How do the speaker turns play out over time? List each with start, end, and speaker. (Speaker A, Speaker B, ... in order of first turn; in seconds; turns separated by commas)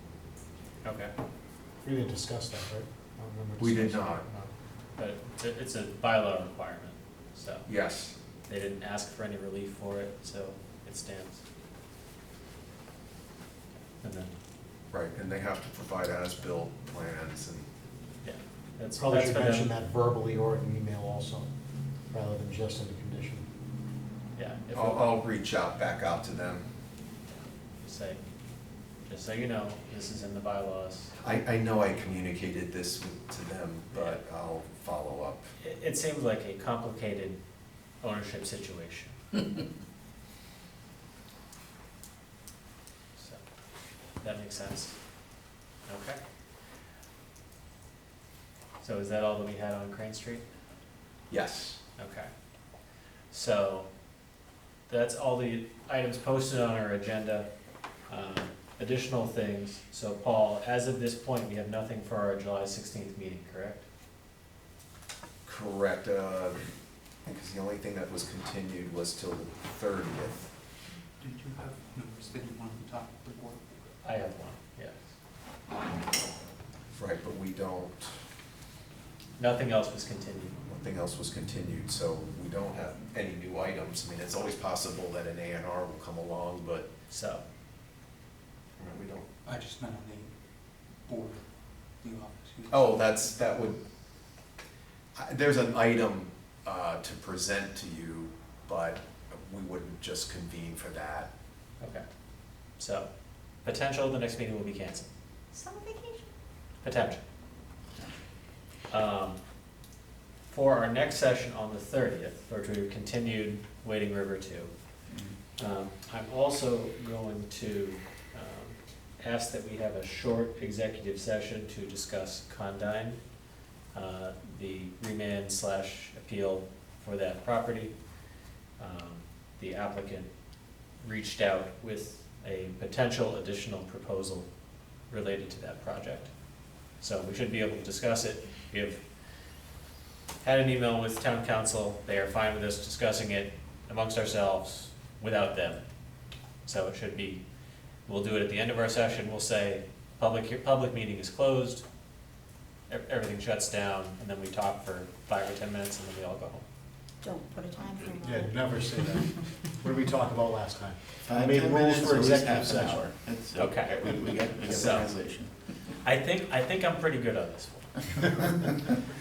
Speaker A: 0.8-1.1, Speaker B: 1.8-4.5, Speaker C: 3.6-4.2, Speaker A: 5.0-7.7, Speaker C: 7.7-8.2, Speaker A: 8.5-11.4, Speaker A: 14.0-14.3, Speaker C: 14.9-17.7, Speaker A: 18.2-19.7, Speaker B: 19.0-21.5, Speaker B: 22.1-23.5, Speaker A: 24.4-25.1, Speaker C: 24.7-26.7, Speaker A: 27.8-28.2, Speaker A: 29.1-31.1, Speaker C: 31.2-35.5, Speaker A: 33.9-34.2, Speaker A: 35.6-37.4, Speaker A: 38.0-39.4, Speaker A: 44.2-45.0, Speaker A: 45.9-46.2, Speaker A: 48.8-50.5, Speaker C: 51.3-51.8, Speaker A: 52.0-52.3, Speaker A: 53.3-53.9, Speaker A: 54.9-57.5, Speaker A: 58.1-63.8, Speaker C: 65.4-66.6, Speaker C: 67.2-70.5, Speaker D: 71.2-73.6, Speaker A: 74.0-75.0, Speaker C: 76.9-78.1, Speaker A: 79.4-80.6, Speaker C: 80.7-86.9, Speaker A: 87.1-87.4, Speaker C: 88.8-89.3, Speaker D: 89.4-90.3, Speaker D: 91.0-93.2, Speaker C: 92.7-93.8, Speaker C: 95.2-101.3, Speaker A: 101.8-102.0, Speaker A: 102.8-103.1, Speaker A: 103.6-105.1, Speaker E: 105.5-106.2, Speaker A: 106.8-107.2, Speaker A: 108.9-109.4, Speaker A: 110.5-114.7, Speaker A: 115.6-123.2, Speaker A: 123.9-127.9, Speaker A: 128.8-130.3, Speaker A: 131.0-134.5, Speaker A: 135.1-136.3, Speaker A: 137.0-139.0, Speaker A: 140.4-145.8, Speaker A: 146.7-147.4, Speaker A: 148.1-151.8, Speaker A: 152.9-156.6, Speaker E: 157.2-158.6, Speaker F: 157.9-158.2, Speaker B: 158.2-163.1, Speaker F: 161.2-165.6, Speaker A: 163.6-165.2, Speaker A: 166.0-168.7